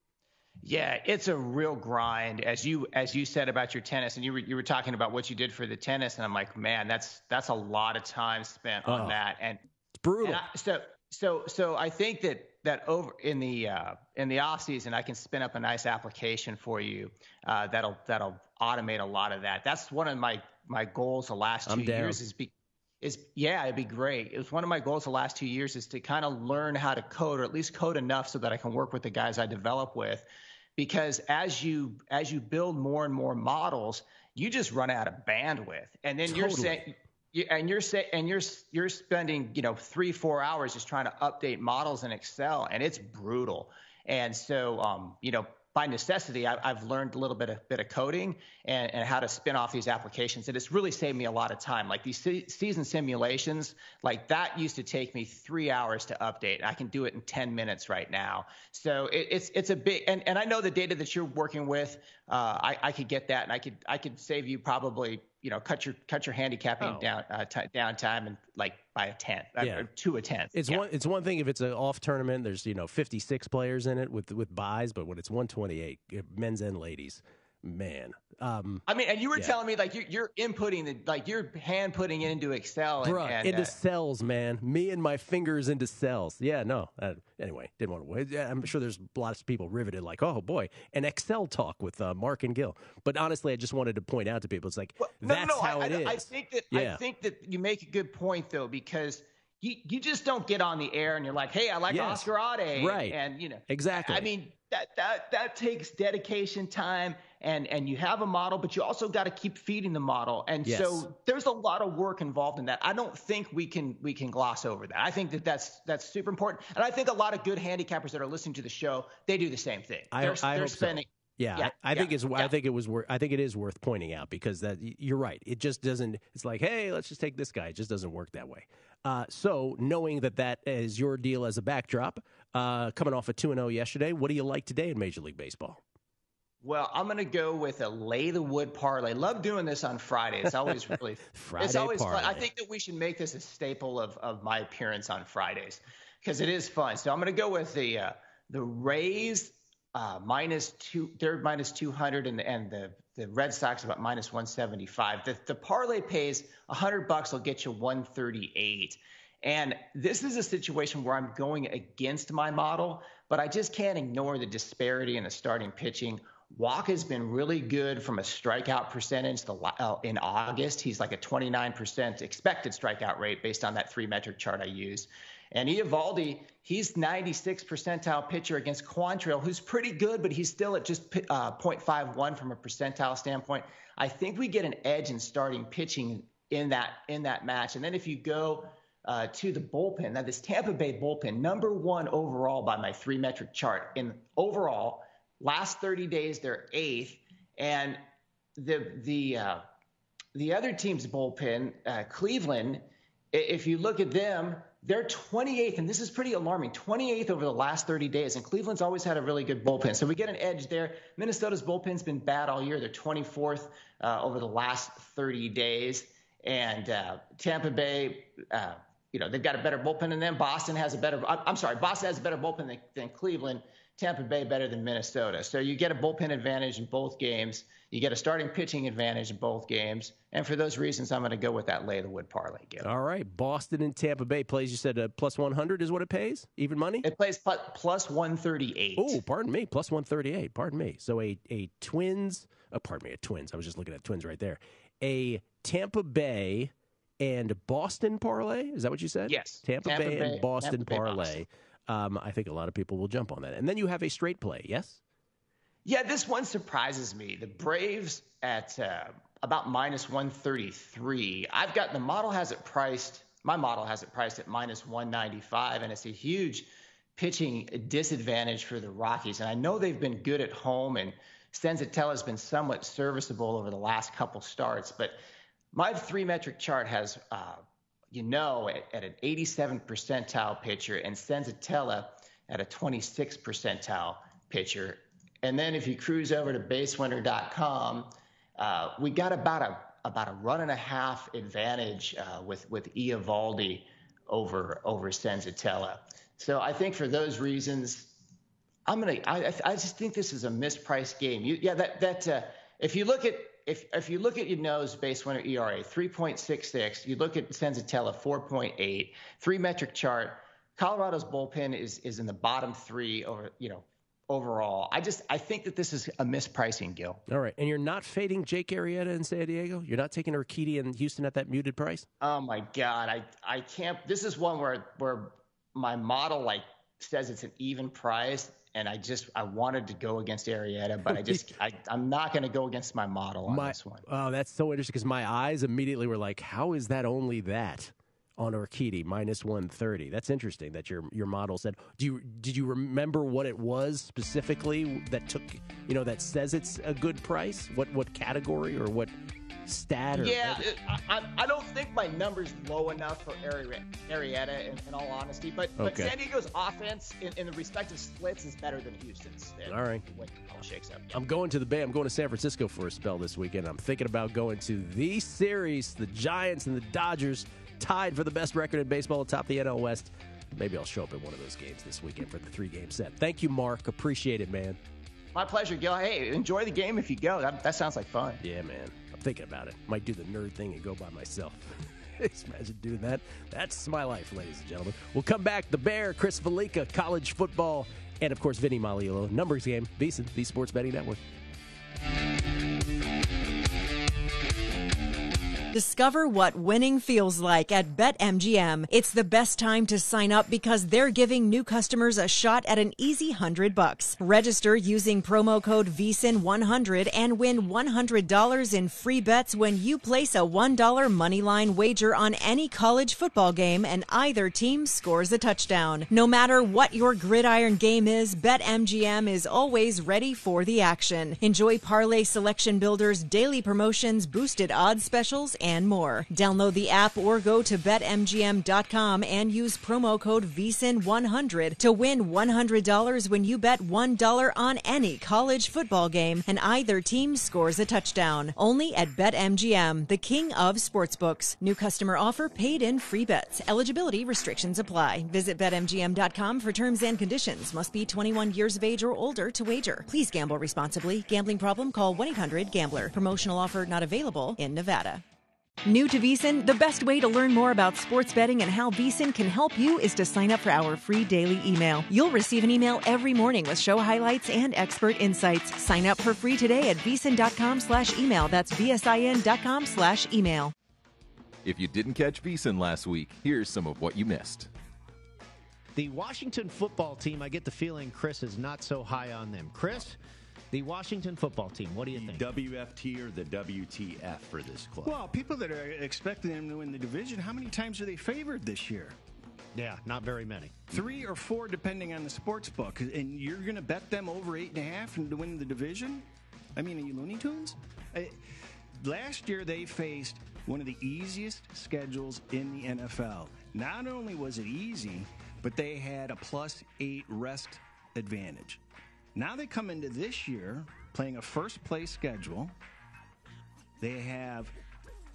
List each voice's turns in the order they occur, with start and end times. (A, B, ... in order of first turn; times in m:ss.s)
0:00.6-0:09.6 A
0:08.8-0:09.2 B
0:10.0-0:10.4 B
0:10.2-1:10.8 A
0:21.7-0:22.2 B
0:36.3-0:36.8 B
1:06.8-1:07.1 B
1:09.6-1:09.9 B
1:10.5-1:19.6 B
1:18.9-1:23.7 A
1:23.0-1:37.0 B
1:35.0-2:02.5 A
1:41.9-1:44.3 B
1:50.6-1:51.1 B
2:00.1-2:15.8 B
2:16.6-3:18.0 A
2:21.3-2:22.5 B
3:18.6-3:19.6 A
3:20.4-3:52.9 A
3:52.8-3:57.1 B
3:57.0-3:59.2 A
3:59.0-4:15.0 B
4:09.3-4:11.4 A
4:15.8-4:35.2 A
4:35.7-4:58.2 A
4:58.9-5:17.2 A
5:17.3-5:22.1 B
5:22.2-5:34.0 A
5:31.1-5:31.5 B
5:33.5-5:49.1 B
5:49.7-5:50.7 B
5:50.2-6:01.2 A
5:55.8-5:56.1 B
5:59.6-6:00.0 B
6:01.1-6:14.8 B
6:15.3-6:18.4 A
6:18.4-6:31.2 B
6:35.7-7:35.2 C
7:35.8-7:50.7 C
7:51.6-7:54.7 D
7:56.0-8:00.2 E
8:00.7-8:02.5 E
8:02.1-8:05.2 F
8:05.0-8:09.2 G
8:09.8-8:10.9 E
8:10.9-8:18.4 G
8:19.0-8:28.8 G
8:29.4-8:32.8 G
8:34.0-8:34.7 G